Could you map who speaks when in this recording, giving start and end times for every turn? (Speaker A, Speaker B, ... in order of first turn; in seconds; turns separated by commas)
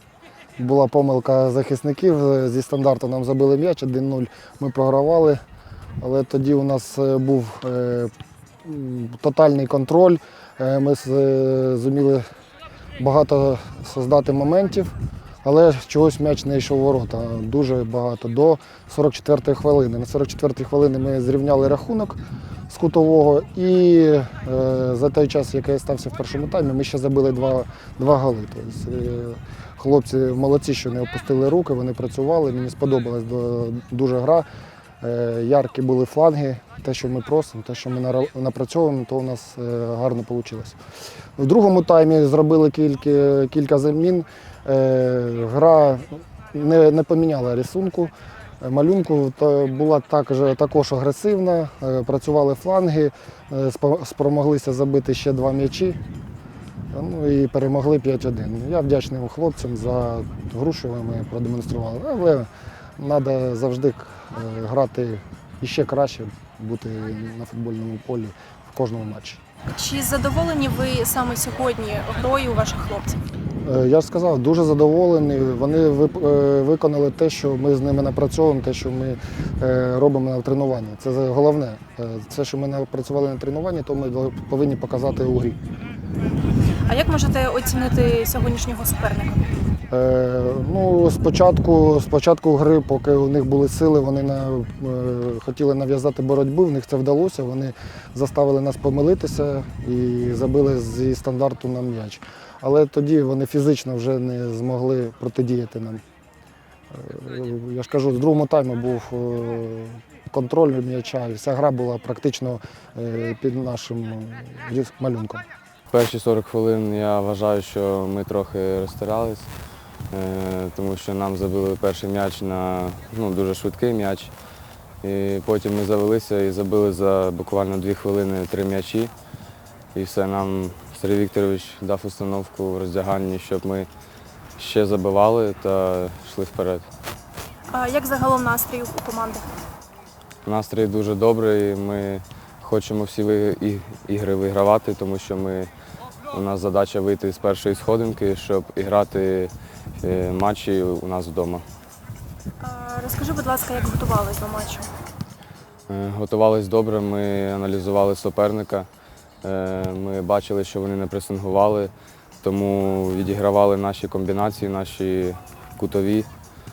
Speaker A: 0.6-5.4, Speaker A: 6.0-8.1, Speaker A: 8.6-12.2, Speaker A: 13.0-14.9, Speaker A: 15.4-34.5, Speaker A: 35.0-40.8, Speaker A: 41.4-56.0, Speaker A: 56.9-69.4, Speaker B: 69.7-73.2, Speaker A: 73.6-85.6, Speaker B: 86.8-89.5, Speaker A: 89.9-106.0, Speaker A: 106.9-115.4, Speaker C: 115.9-119.5, Speaker C: 120.1-124.3, Speaker C: 125.0-129.1, Speaker C: 129.9-133.9, Speaker C: 134.6-136.9, Speaker B: 137.7-139.5, Speaker C: 140.4-145.7, Speaker C: 146.3-151.7, Speaker B: 152.6-154.9, Speaker C: 155.9-158.9, Speaker C: 159.4-166.3